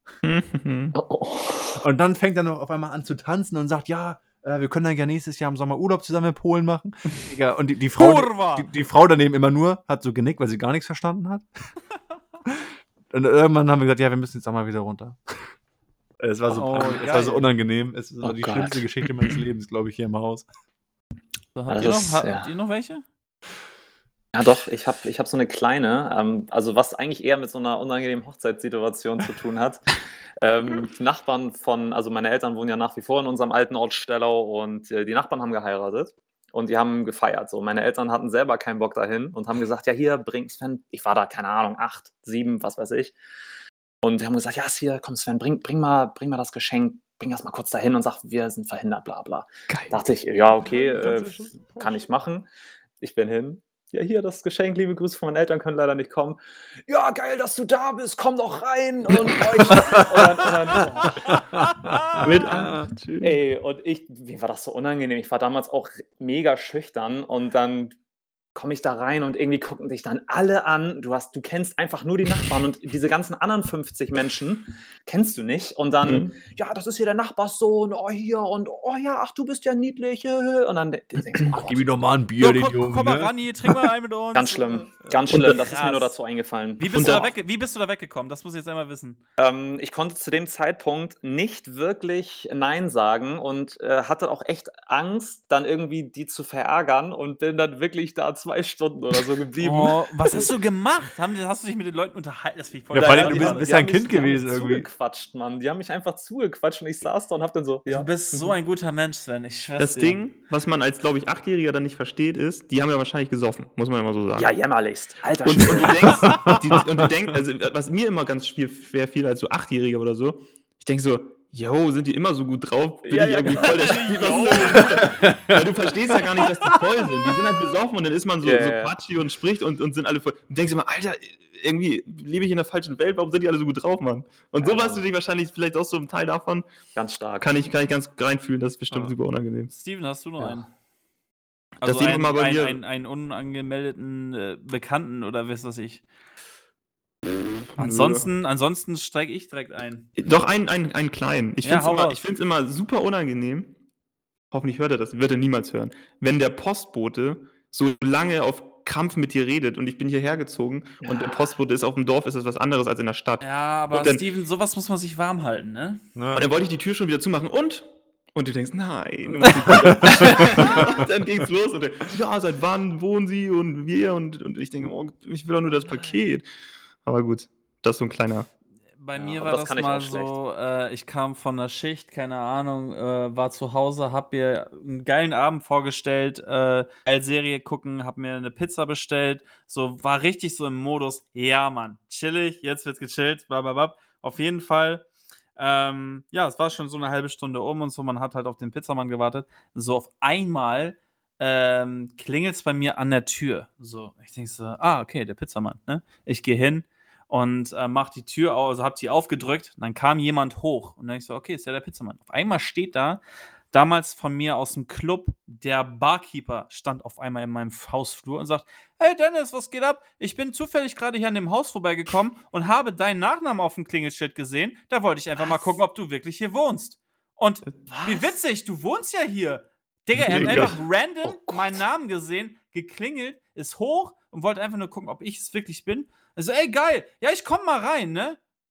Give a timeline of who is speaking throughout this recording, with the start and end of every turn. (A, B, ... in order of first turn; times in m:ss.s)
0:00.2-0:00.9 A
0:01.0-0:01.8 B
0:01.8-0:11.4 C
0:08.0-0:08.7 D
0:12.4-0:15.5 C
0:16.2-0:20.5 C
0:16.5-0:17.4 D
0:18.2-0:18.8 B
0:21.5-0:23.0 D
0:21.7-0:22.5 B
0:24.3-0:43.2 B
0:44.0-0:52.5 B
0:49.7-0:50.0 A
0:50.6-0:52.0 C
0:53.0-1:01.4 B
1:00.0-1:00.3 C
1:01.2-1:02.8 C
1:01.6-1:02.4 D
1:02.2-1:03.4 A
1:02.3-1:08.0 B
1:08.5-1:21.8 B
1:16.0-1:16.3 A
1:21.5-1:23.7 C
1:22.4-1:26.1 D
1:24.3-1:27.3 B
1:25.3-1:25.6 A
1:26.8-1:29.2 D
1:26.9-1:27.2 A
1:29.4-1:40.5 B
1:39.6-1:43.7 D
1:42.9-1:44.9 C
1:43.0-1:48.1 B
1:47.9-1:50.2 D
1:49.8-1:54.6 A
1:54.4-1:56.8 B
1:55.4-2:16.6 A
1:56.2-1:56.8 C
2:03.0-2:04.6 B
2:03.6-2:05.0 D
2:04.9-2:05.6 C
2:08.4-2:08.9 B
2:14.6-2:15.1 B
2:17.0-2:17.5 B
2:17.4-2:19.7 A
2:19.7-2:20.7 D
2:20.4-2:20.6 B
2:21.8-2:22.8 A
2:21.8-2:26.0 D
2:27.7-2:28.3 A
2:27.8-2:30.1 D
2:30.2-2:33.7 A
2:31.6-2:32.2 D
2:34.5-2:44.2 A
2:41.0-2:41.4 B
2:43.4-2:46.0 D
2:46.1-2:46.5 C
2:46.3-2:56.4 A
2:49.8-2:50.8 C
2:57.0-2:58.5 A
2:59.0-3:15.0 D
2:59.2-3:00.3 B
3:15.6-3:33.2 D
3:33.7-3:58.4 D
3:47.6-3:48.0 A
3:50.2-3:50.7 C
3:50.3-3:50.8 A
3:51.2-3:51.8 B